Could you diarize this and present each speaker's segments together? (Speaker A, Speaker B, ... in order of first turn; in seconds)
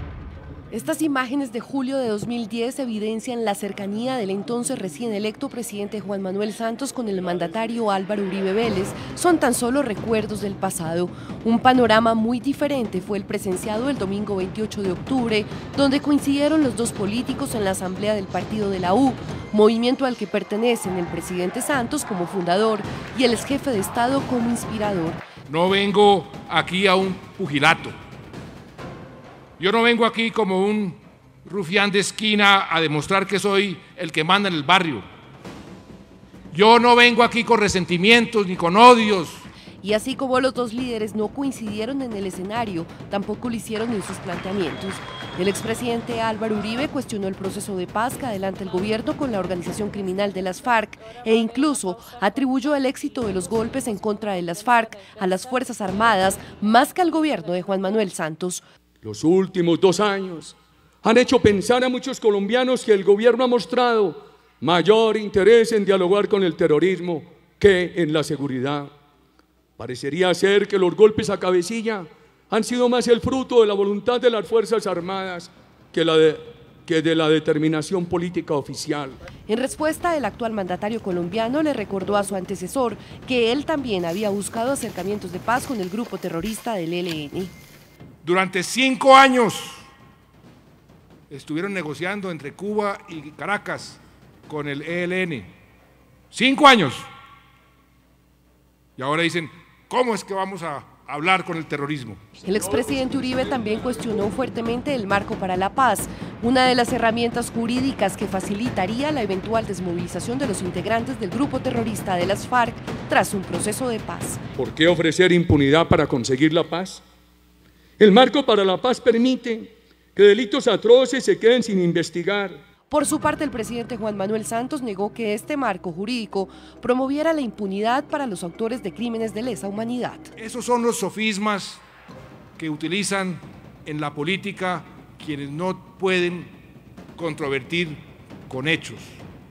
Speaker A: 0.7-25.2, 39.8-58.6, 79.5-87.5, 102.5-114.4, 122.9-130.3
Speaker B: 25.5-27.9, 29.6-35.0, 36.5-39.5, 88.2-89.8, 91.3-95.5, 96.3-97.1, 99.0-102.2, 130.4-131.8, 132.6-136.5, 137.2-139.2
Speaker C: 59.0-68.9, 69.8-79.2, 114.6-117.0, 118.0-122.6